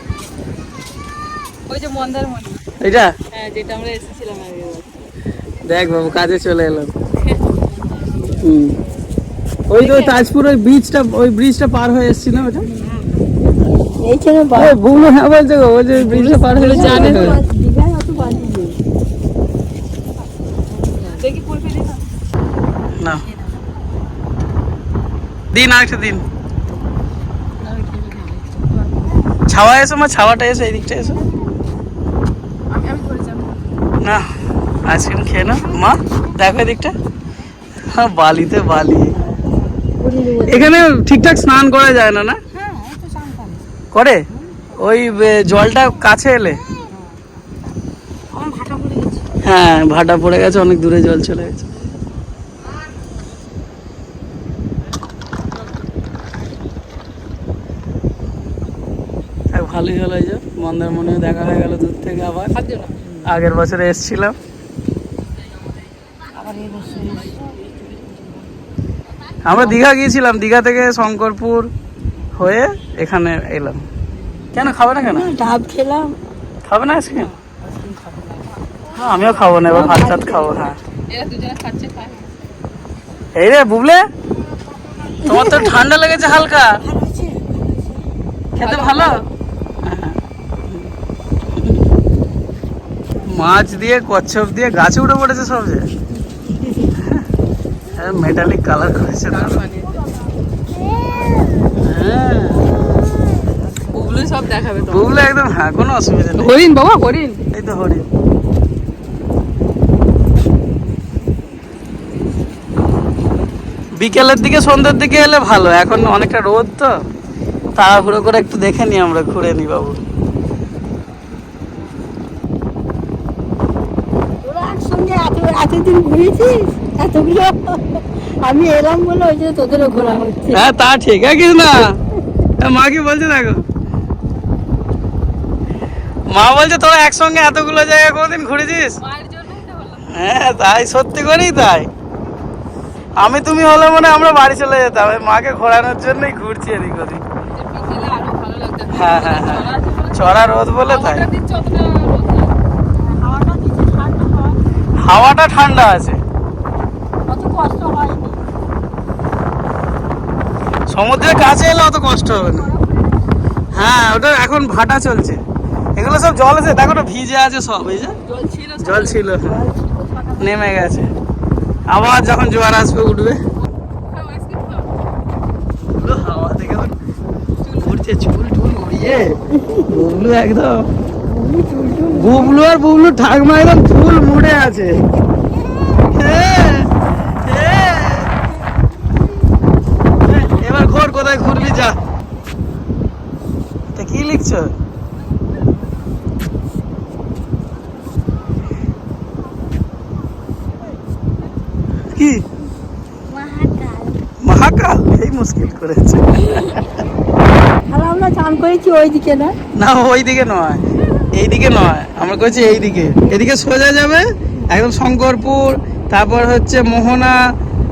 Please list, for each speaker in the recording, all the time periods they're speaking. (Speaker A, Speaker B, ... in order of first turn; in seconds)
Speaker A: 1.7-2.6, 3.3-5.0, 9.7-10.3, 16.5-17.4, 21.1-22.0, 27.7-28.9, 32.7-33.7, 62.5-63.0, 81.1-82.3, 88.6-89.2, 99.3-100.0, 103.9-105.2, 106.4-107.4, 139.0-140.1, 147.5-152.6, 168.3-169.4, 174.1-174.9
Speaker B: 2.8-3.1, 5.7-6.9, 8.4-8.8, 9.7-12.7, 14.6-17.4, 23.0-23.2, 25.5-26.2, 29.5-31.2, 34.0-34.3, 34.9-37.0, 37.9-39.1, 40.5-42.4, 43.9-44.2, 44.8-46.6, 49.4-51.6, 59.5-62.5, 63.2-64.4, 69.4-71.7, 72.4-73.8, 74.5-75.3, 76.7-77.3, 78.9-80.8, 83.3-84.0, 85.3-86.8, 88.6-89.2, 89.8-90.2, 91.5-91.8, 93.2-95.9, 97.0-97.2, 97.9-99.6, 101.8-102.7, 104.9-106.5, 107.5-108.1, 114.0-117.0, 117.8-120.0, 130.5-132.0, 132.6-133.6, 136.3-139.0, 140.1-141.9, 143.2-147.2, 148.9-151.3, 155.0-156.2, 160.9-162.7, 163.7-165.4, 166.0-168.2, 168.8-169.6, 170.4-171.1, 171.9-173.4, 175.9-176.9, 177.8-180.9, 182.1-185.0, 186.1-188.3, 190.3-192.0, 193.9-194.7, 202.1-202.4, 204.4-206.8, 209.8-210.8, 211.3-217.4
Speaker C: 14.0-14.8, 15.9-18.8, 20.8-21.1, 40.0-40.9, 42.5-43.6, 48.3-49.2, 66.3-67.7, 75.0-76.2, 79.7-80.8, 85.2-85.9, 86.8-87.5, 96.6-96.9, 100.9-101.7, 124.4-130.7, 153.0-154.6, 157.3-158.4, 162.5-163.3, 169.4-170.6, 179.5-179.9, 181.3-182.6, 203.3-204.2, 207.9-209.6